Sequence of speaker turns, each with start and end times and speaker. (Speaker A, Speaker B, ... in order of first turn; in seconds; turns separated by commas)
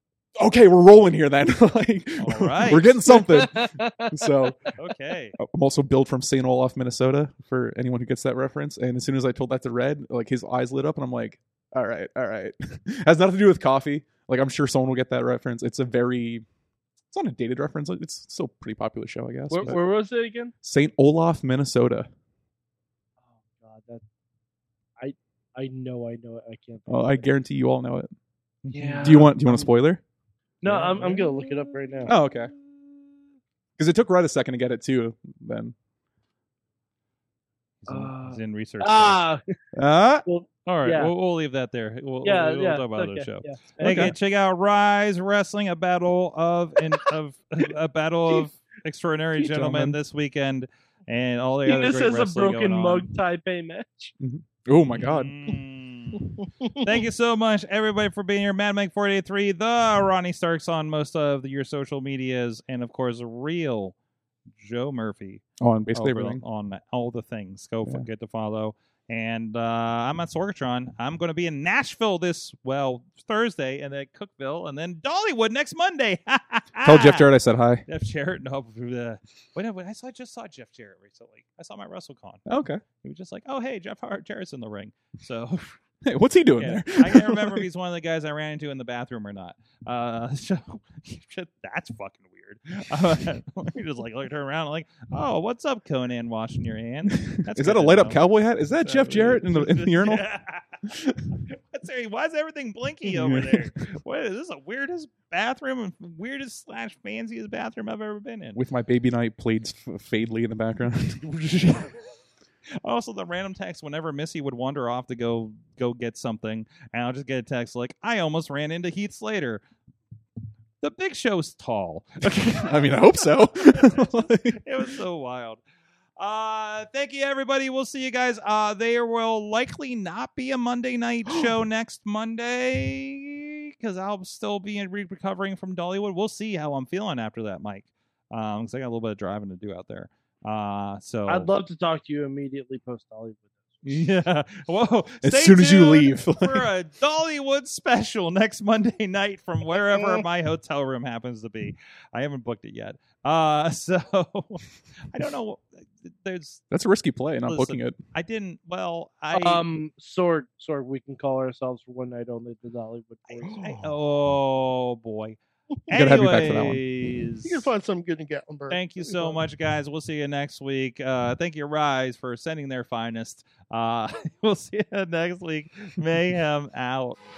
Speaker A: 0.4-4.7, Speaker B: 2.2-3.0, Speaker C: 3.0-4.3, Speaker B: 4.8-5.4, Speaker A: 5.4-16.4, Speaker A: 17.1-19.8, Speaker C: 19.5-20.5, Speaker A: 20.6-22.1, Speaker C: 23.3-24.0, Speaker C: 25.0-27.3, Speaker A: 26.9-28.1, Speaker A: 28.6-30.0, Speaker C: 28.7-29.7, Speaker C: 30.6-32.1, Speaker A: 30.6-31.2, Speaker B: 30.6-31.2, Speaker A: 32.0-32.5, Speaker A: 33.8-35.7, Speaker B: 37.8-39.2, Speaker C: 37.9-39.4, Speaker A: 39.8-40.2, Speaker C: 40.2-41.1, Speaker B: 40.6-53.1, Speaker C: 42.2-44.1, Speaker A: 43.8-44.1, Speaker A: 49.4-50.0, Speaker C: 51.6-54.1, Speaker A: 54.2-55.4, Speaker B: 54.9-63.9, Speaker B: 64.5-77.3, Speaker A: 65.6-66.4, Speaker A: 76.8-77.8, Speaker B: 77.9-82.5, Speaker A: 82.5-82.8, Speaker B: 83.0-85.8, Speaker A: 86.0-87.7, Speaker B: 86.6-108.6, Speaker A: 97.1-100.2, Speaker A: 103.0-103.7, Speaker A: 108.5-112.0, Speaker B: 112.8-119.6, Speaker B: 120.8-125.6, Speaker A: 122.2-124.9, Speaker B: 126.2-141.5, Speaker C: 141.3-143.8, Speaker B: 143.8-156.6, Speaker A: 145.2-146.7, Speaker A: 156.7-158.0, Speaker B: 157.4-159.6, Speaker C: 159.3-163.7, Speaker B: 163.3-165.4, Speaker A: 163.4-163.8, Speaker B: 165.9-167.7, Speaker A: 165.9-166.8, Speaker D: 167.4-169.4, Speaker B: 168.7-177.2